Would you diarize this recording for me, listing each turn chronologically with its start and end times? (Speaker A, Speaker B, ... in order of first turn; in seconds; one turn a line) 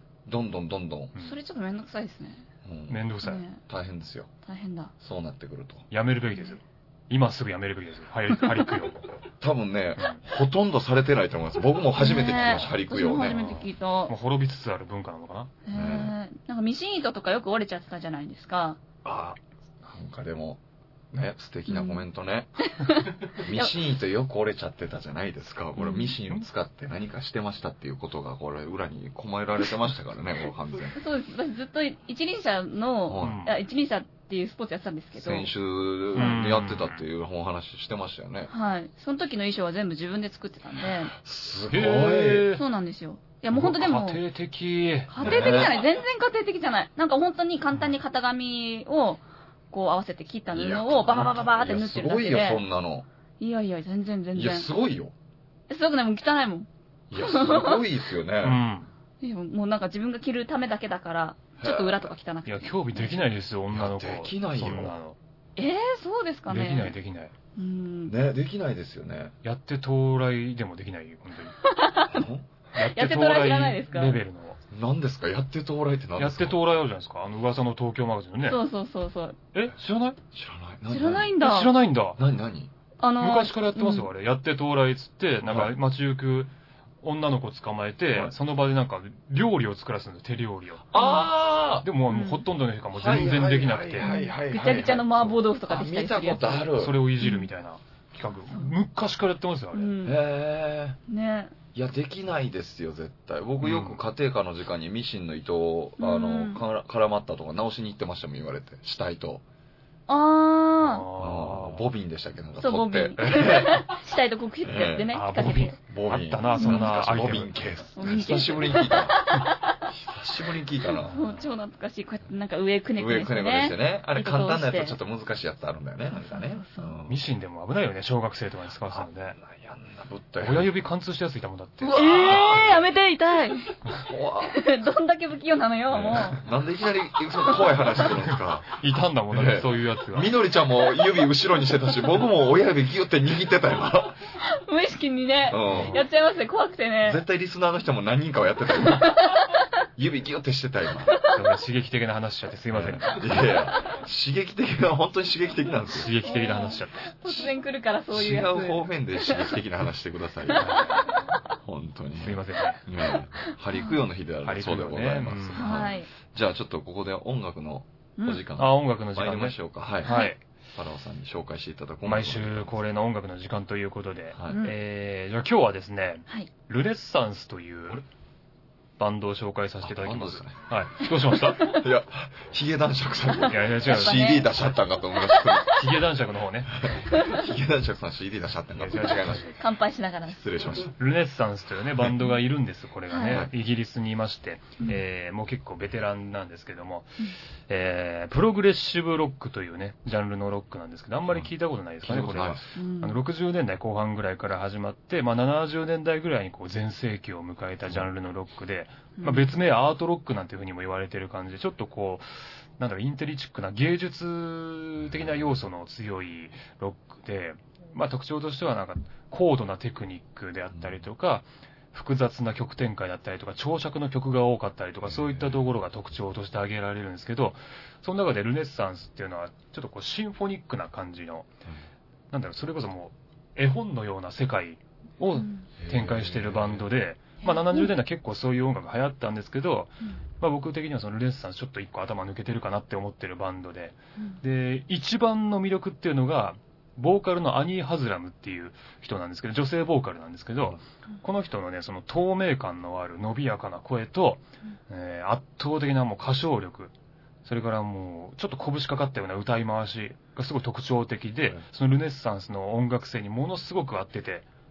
Speaker A: 0.3-1.1
Speaker B: 1.2-2.5
Speaker A: 2.6-3.0
Speaker C: 2.9-3.4
Speaker B: 3.2-3.6
Speaker A: 3.7-4.3
Speaker B: 4.5-4.9
Speaker A: 5.0-5.9
Speaker C: 5.9-9.0
Speaker A: 9.4-13.4
Speaker B: 12.0-14.1
Speaker C: 13.3-15.5
Speaker B: 15.7-18.8
Speaker A: 15.7-16.1
Speaker A: 19.1-22.5
Speaker B: 21.7-22.1
Speaker B: 22.6-23.7
Speaker A: 23.4-31.0
Speaker B: 25.8-26.2
Speaker B: 31.0-35.5
Speaker A: 33.1-33.4
Speaker C: 33.2-33.5
Speaker A: 35.2-38.5
Speaker B: 36.1-36.4
Speaker C: 36.1-37.0
Speaker B: 38.5-41.1
Speaker A: 41.1-42.5
Speaker C: 41.7-42.6
Speaker B: 42.5-44.2
Speaker C: 43.5-45.7
Speaker B: 45.1-52.6
Speaker A: 45.2-45.8
Speaker A: 50.5-53.1
Speaker B: 53.4-54.7
Speaker A: 54.3-55.1
Speaker B: 55.7-57.9
Speaker A: 57.1-58.6
Speaker C: 58.4-58.9
Speaker B: 59.2-63.2
Speaker A: 61.6-62.1
Speaker C: 62.5-65.2
Speaker A: 63.7-65.0
Speaker B: 65.6-66.9
Speaker C: 66.5-67.3
Speaker B: 67.6-68.2
Speaker A: 68.1-69.3
Speaker C: 69.4-71.5
Speaker B: 71.6-74.2
Speaker A: 72.1-72.5
Speaker C: 72.8-74.6
Speaker A: 74.7-76.6
Speaker C: 76.2-78.6
Speaker B: 78.4-79.4
Speaker C: 79.5-80.2
Speaker A: 80.3-81.3
Speaker B: 80.9-81.7
Speaker C: 81.4-82.2
Speaker A: 82.2-82.7
Speaker B: 83.0-84.1
Speaker C: 83.2-86.5
Speaker A: 85.5-85.7
Speaker C: 87.0-90.9
Speaker A: 90.9-91.9
Speaker B: 91.0-91.3
Speaker C: 91.8-94.1
Speaker B: 92.1-92.5
Speaker A: 93.0-97.0
Speaker B: 94.0-96.7
Speaker C: 96.8-99.9
Speaker B: 97.2-97.5
Speaker B: 98.5-98.7
Speaker B: 99.7-100.2
Speaker A: 100.0-101.0
Speaker B: 101.1-101.5
Speaker A: 101.7-109.4
Speaker C: 103.6-104.0
Speaker B: 106.0-106.6
Speaker B: 110.1-111.1
Speaker C: 110.8-111.8
Speaker A: 111.2-113.8
Speaker B: 112.6-115.8
Speaker C: 113.2-113.7
Speaker A: 114.6-115.1
Speaker C: 115.1-117.6
Speaker A: 115.9-119.2
Speaker B: 116.6-116.9
Speaker B: 118.0-119.8
Speaker A: 119.9-121.2
Speaker B: 121.0-125.0
Speaker C: 121.1-121.4
Speaker A: 123.0-127.2
Speaker B: 126.1-127.0
Speaker C: 127.1-129.4
Speaker A: 128.9-130.7
Speaker C: 130.4-132.8
Speaker A: 131.8-132.8
Speaker B: 131.9-133.8
Speaker A: 134.0-134.6
Speaker B: 134.4-136.4
Speaker A: 135.9-138.7
Speaker B: 137.4-138.0
Speaker C: 138.3-140.4
Speaker A: 139.3-144.2
Speaker B: 144.4-147.2
Speaker A: 145.5-146.0
Speaker C: 145.6-146.0
Speaker A: 147.0-149.2
Speaker B: 148.8-149.7
Speaker A: 150.0-151.2
Speaker B: 151.0-151.4
Speaker C: 151.3-153.2
Speaker A: 152.7-156.1
Speaker C: 155.9-157.2
Speaker B: 156.2-159.6
Speaker A: 158.1-160.7
Speaker B: 160.5-161.2
Speaker C: 160.6-161.2
Speaker A: 161.6-170.2
Speaker C: 162.2-162.8
Speaker B: 163.0-164.0
Speaker C: 164.4-165.8
Speaker B: 165.6-166.1
Speaker B: 168.2-168.4
Speaker C: 168.6-170.4
Speaker B: 170.1-170.3
Speaker A: 170.7-172.8
Speaker C: 172.0-178.0
Speaker A: 174.3-174.6
Speaker B: 174.5-174.8
Speaker C: 179.0-181.7
Speaker A: 179.8-180.6
Speaker B: 181.6-181.8
Speaker A: 181.6-185.8
Speaker B: 183.4-184.5
Speaker C: 183.5-184.3
Speaker B: 185.3-185.7
Speaker C: 185.7-187.1
Speaker A: 186.8-189.5
Speaker B: 187.1-187.4
Speaker C: 188.8-189.6
Speaker B: 189.6-190.4
Speaker A: 190.3-190.9
Speaker C: 191.0-231.5
Speaker B: 193.1-193.4
Speaker A: 202.0-202.6
Speaker B: 202.8-203.2
Speaker B: 209.2-209.5
Speaker A: 220.7-221.0
Speaker A: 225.0-225.6
Speaker C: 232.3-256.9
Speaker B: 235.4-235.7
Speaker A: 235.8-236.9
Speaker B: 237.4-237.9
Speaker C: 257.4-264.5